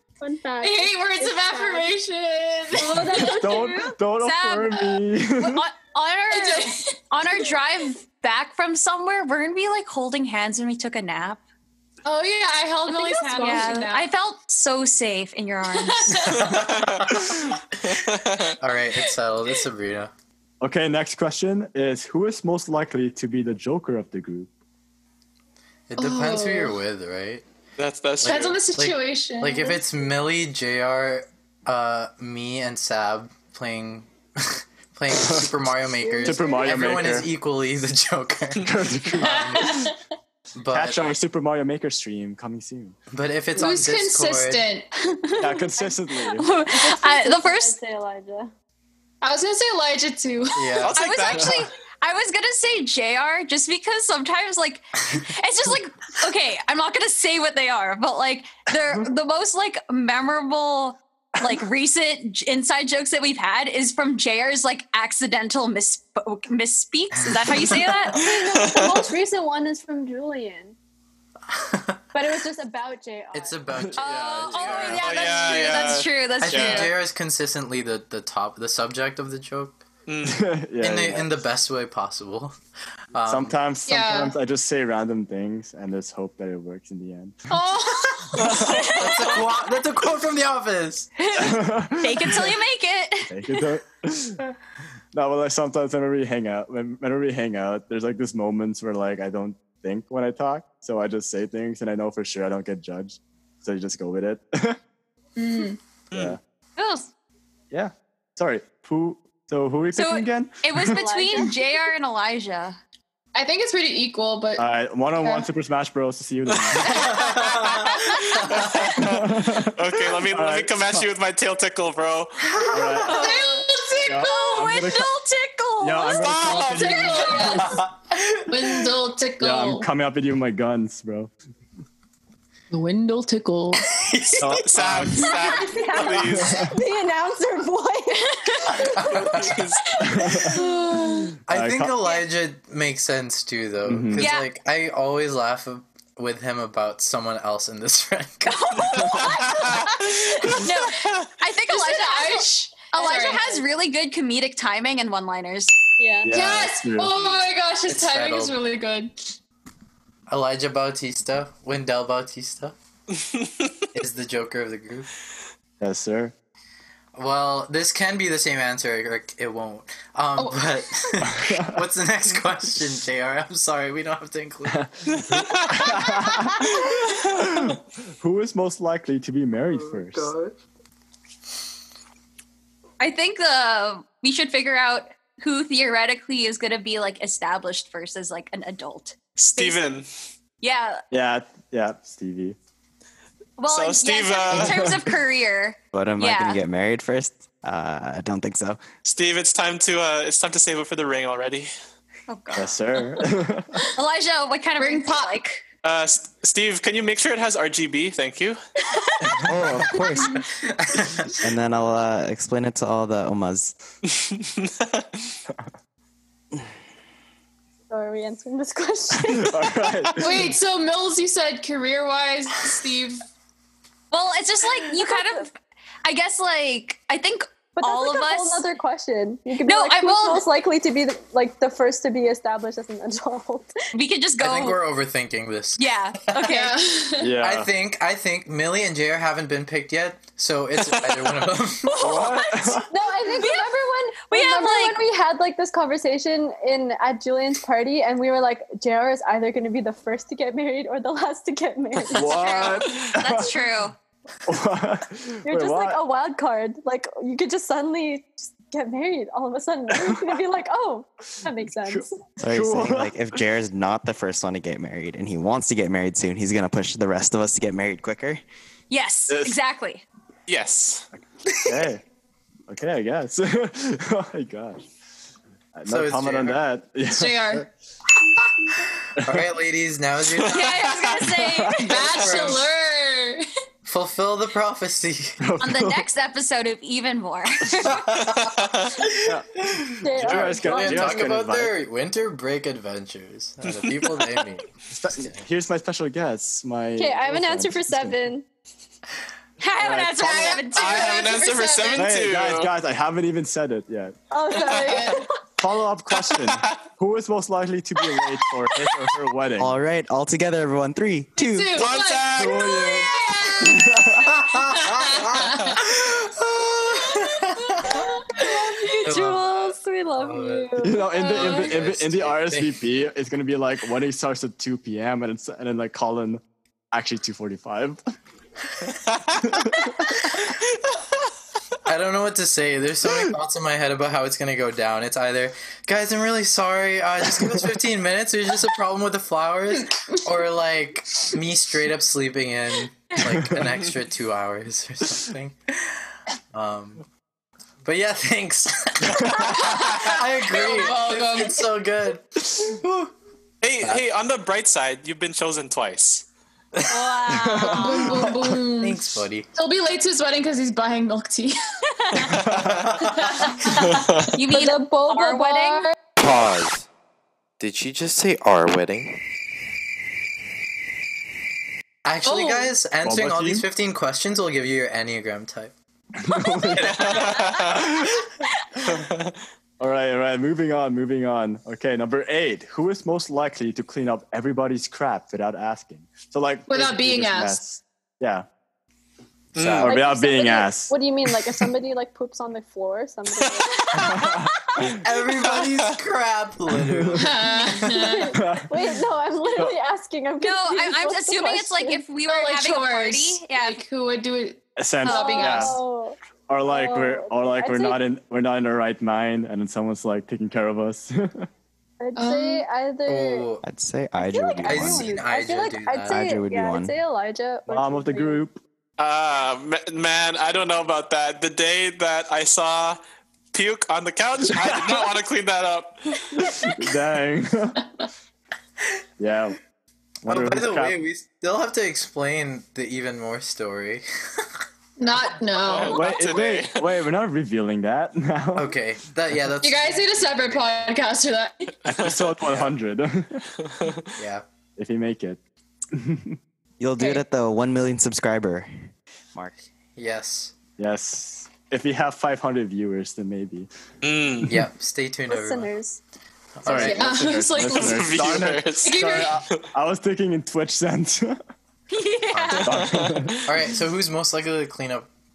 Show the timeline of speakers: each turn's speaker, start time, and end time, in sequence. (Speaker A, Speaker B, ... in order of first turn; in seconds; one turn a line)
Speaker A: 0.2-1.9
Speaker B: 0.6-3.5
Speaker A: 2.7-4.0
Speaker C: 3.2-5.6
Speaker D: 4.2-4.8
Speaker D: 5.4-11.4
Speaker B: 6.3-7.0
Speaker B: 12.1-14.1
Speaker A: 12.9-13.8
Speaker D: 13.3-16.2
Speaker B: 15.8-16.5
Speaker E: 16.3-17.4
Speaker F: 16.5-17.2
Speaker F: 17.9-18.6
Speaker E: 18.6-20.1
Speaker C: 20.6-24.5
Speaker E: 25.9-27.4
Speaker B: 25.9-26.8
Speaker F: 27.8-28.6
Speaker B: 28.2-29.8
Speaker E: 28.2-39.9
Speaker C: 35.1-35.5
Speaker A: 36.0-37.0
Speaker C: 36.2-37.3
Speaker C: 38.6-39.9
Speaker B: 39.2-40.0
Speaker E: 40.6-41.2
Speaker C: 40.7-43.0
Speaker E: 43.1-44.7
Speaker B: 43.5-44.9
Speaker A: 45.3-48.5
Speaker C: 45.4-46.5
Speaker D: 46.4-47.8
Speaker B: 49.2-50.9
Speaker E: 50.5-51.0
Speaker F: 50.8-51.7
Speaker D: 50.9-68.2
Speaker A: 68.0-70.8
Speaker F: 68.2-69.1
Speaker E: 71.5-72.0
Speaker A: 72.1-73.6
Speaker E: 73.3-75.0
Speaker C: 73.7-75.0
Speaker D: 74.0-76.9
Speaker F: 74.6-76.9
Speaker E: 76.4-79.8
Speaker F: 80.1-80.5
Speaker C: 80.2-81.3
Speaker E: 80.8-82.5
Speaker E: 83.1-83.5
Speaker C: 83.3-87.5
Speaker B: 83.9-84.4
Speaker B: 87.5-88.8
Speaker C: 88.4-89.0
Speaker D: 88.5-89.4
Speaker E: 88.8-91.1
Speaker D: 91.2-93.7
Speaker C: 91.3-92.6
Speaker C: 93.3-94.5
Speaker C: 95.1-104.8
Speaker B: 105.4-105.8
Speaker F: 106.1-106.4
Speaker C: 106.1-106.4
Speaker D: 106.8-107.1
Speaker C: 107.7-110.8
Speaker D: 110.0-112.8
Speaker A: 110.8-111.6
Speaker B: 113.3-114.7
Speaker C: 114.6-117.2
Speaker B: 115.2-115.5
Speaker F: 116.5-117.8
Speaker D: 116.9-118.4
Speaker E: 117.1-117.9
Speaker F: 118.5-122.5
Speaker C: 118.9-121.1
Speaker E: 122.5-123.2
Speaker C: 122.7-123.3
Speaker B: 123.1-124.5
Speaker D: 123.1-127.4
Speaker C: 124.0-125.1
Speaker C: 125.8-127.6
Speaker F: 126.1-127.5
Speaker B: 126.8-127.8
Speaker A: 127.2-127.5
Speaker E: 127.6-128.7
Speaker B: 128.5-129.9
Speaker C: 129.4-131.3
Speaker B: 132.7-133.8
Speaker E: 133.9-135.1
Speaker C: 134.4-135.3
Speaker F: 134.6-136.7
Speaker A: 135.2-139.5
Speaker C: 136.1-136.7
Speaker E: 138.9-139.5
Speaker F: 139.4-139.8
Speaker C: 140.0-140.6
Speaker B: 140.4-141.3
Speaker E: 141.5-148.6
Speaker C: 141.5-141.9
Speaker C: 143.8-144.2
Speaker D: 144.2-144.5
Speaker D: 148.4-155.7
Speaker F: 149.1-149.9
Speaker B: 151.7-153.5
Speaker A: 153.0-153.6
Speaker A: 156.0-156.5
Speaker C: 156.2-157.2
Speaker B: 156.3-159.3
Speaker E: 157.9-158.6
Speaker E: 160.3-162.8
Speaker F: 163.1-163.7
Speaker E: 163.9-165.1
Speaker C: 165.8-166.3
Speaker E: 167.1-174.8
Speaker C: 171.2-171.8
Speaker C: 174.7-180.3
Speaker F: 175.1-176.0
Speaker E: 179.7-180.6
Speaker D: 183.0-189.8
Speaker F: 189.4-190.1
Speaker D: 190.6-191.0
Speaker C: 191.1-192.6
Speaker D: 193.6-196.6
Speaker F: 193.7-195.0
Speaker C: 194.5-195.0
Speaker G: 195.9-198.8
Speaker F: 199.1-201.7
Speaker D: 202.3-203.1
Speaker C: 202.5-203.7
Speaker D: 203.9-205.6
Speaker B: 204.8-205.4
Speaker F: 205.8-208.6
Speaker C: 209.4-209.9
Speaker G: 209.4-210.4
Speaker E: 210.6-211.4
Speaker G: 211.4-213.8
Speaker F: 214.1-215.2
Speaker A: 217.9-219.6
Speaker C: 219.3-220.6
Speaker B: 220.2-223.2
Speaker D: 224.1-228.7
Speaker A: 224.9-225.4
Speaker A: 227.8-233.7
Speaker D: 229.6-230.5
Speaker D: 233.9-234.8
Speaker E: 234.4-236.4
Speaker D: 235.8-236.8
Speaker B: 236.5-237.4
Speaker C: 237.2-237.7
Speaker E: 237.4-242.2
Speaker D: 241.9-243.7
Speaker C: 241.9-242.9
Speaker A: 242.8-252.8
Speaker D: 244.3-245.1
Speaker C: 252.1-253.5
Speaker D: 252.2-253.9
Speaker C: 254.4-256.1
Speaker A: 255.4-262.2
Speaker C: 259.9-260.4
Speaker C: 261.9-263.1
Speaker G: 262.4-268.4
Speaker D: 268.9-270.0
Speaker C: 269.3-269.6
Speaker F: 270.5-271.1
Speaker C: 271.6-272.0
Speaker C: 272.7-274.9
Speaker C: 275.7-277.7
Speaker E: 275.9-276.6
Speaker B: 277.1-277.7
Speaker E: 279.2-280.9
Speaker C: 279.2-279.5
Speaker F: 280.4-281.1
Speaker D: 280.5-282.1
Speaker C: 281.3-282.0
Speaker B: 281.7-283.4
Speaker E: 281.8-282.7
Speaker E: 283.9-285.4
Speaker C: 285.4-286.1
Speaker D: 285.6-288.2
Speaker E: 288.2-294.7
Speaker F: 288.4-288.9
Speaker C: 289.2-289.5
Speaker A: 290.0-291.4
Speaker C: 290.1-291.7
Speaker C: 294.9-298.3
Speaker A: 296.9-298.4
Speaker D: 299.6-302.0
Speaker C: 299.8-300.9
Speaker F: 300.5-302.7
Speaker C: 301.9-304.2
Speaker A: 304.3-305.4
Speaker B: 304.6-305.2
Speaker C: 305.6-309.7
Speaker F: 306.3-306.8
Speaker G: 309.6-311.9
Speaker B: 311.4-313.9
Speaker F: 311.7-312.8
Speaker C: 312.4-314.5
Speaker E: 314.4-322.8
Speaker B: 314.8-315.8
Speaker A: 318.4-321.3
Speaker C: 320.8-328.0
Speaker B: 321.3-321.6
Speaker C: 329.5-329.9
Speaker E: 331.9-347.1
Speaker E: 347.8-353.1
Speaker B: 349.6-351.7
Speaker F: 349.7-350.0
Speaker F: 353.6-356.3
Speaker D: 356.9-358.2
Speaker C: 357.3-358.5
Speaker B: 357.8-361.6
Speaker E: 358.4-359.5
Speaker D: 362.0-362.3
Speaker F: 362.3-362.9
Speaker C: 362.5-362.7
Speaker E: 362.9-363.1
Speaker B: 363.1-364.1
Speaker F: 363.9-364.4
Speaker D: 364.4-365.9
Speaker A: 364.5-365.9
Speaker H: 366.2-366.9
Speaker H: 367.6-369.2
Speaker E: 372.1-375.7
Speaker B: 372.2-372.7
Speaker C: 373.0-373.7
Speaker C: 376.2-378.0
Speaker E: 376.8-377.3
Speaker F: 376.8-377.9
Speaker F: 378.9-379.4
Speaker C: 379.8-388.4
Speaker B: 386.7-387.6
Speaker F: 389.6-389.9
Speaker E: 389.6-389.9
Speaker C: 389.8-390.9
Speaker A: 389.8-394.2
Speaker D: 393.9-394.3
Speaker C: 394.0-395.0
Speaker E: 394.8-398.2
Speaker F: 395.6-395.9
Speaker C: 396.7-397.3
Speaker B: 397.2-398.4
Speaker A: 397.9-402.1
Speaker C: 398.4-398.9
Speaker C: 399.5-399.8
Speaker D: 400.4-403.8
Speaker B: 402.2-405.7
Speaker C: 404.8-405.8
Speaker D: 405.0-405.7
Speaker A: 405.1-408.0
Speaker C: 406.5-411.5
Speaker A: 412.0-413.5
Speaker B: 412.2-412.7
Speaker E: 413.1-413.6
Speaker G: 413.6-415.2
Speaker A: 414.2-418.4
Speaker E: 414.6-416.2
Speaker G: 416.1-416.9
Speaker C: 417.7-418.6
Speaker F: 419.0-423.0
Speaker F: 423.5-426.5
Speaker C: 424.6-425.1
Speaker C: 426.4-427.8
Speaker C: 429.2-429.6
Speaker C: 430.2-430.9
Speaker E: 430.3-434.5
Speaker B: 435.0-436.1
Speaker F: 435.6-436.9
Speaker C: 435.8-438.7
Speaker E: 438.6-440.9
Speaker B: 439.6-441.7
Speaker C: 441.9-443.4
Speaker F: 441.9-442.4
Speaker E: 442.4-442.7
Speaker F: 443.6-444.1
Speaker E: 444.2-444.4
Speaker C: 444.8-445.4
Speaker C: 445.9-446.4
Speaker G: 446.8-448.7
Speaker B: 447.0-447.2
Speaker E: 449.9-450.5
Speaker C: 450.8-453.7
Speaker F: 454.0-454.6
Speaker E: 454.5-455.7
Speaker A: 455.3-456.0
Speaker E: 456.6-457.1
Speaker C: 456.7-461.4
Speaker B: 456.7-458.1
Speaker F: 457.6-459.7
Speaker B: 458.8-459.4
Speaker D: 461.9-462.9
Speaker E: 462.3-462.8
Speaker C: 462.5-463.4
Speaker F: 462.7-463.5
Speaker E: 463.4-465.1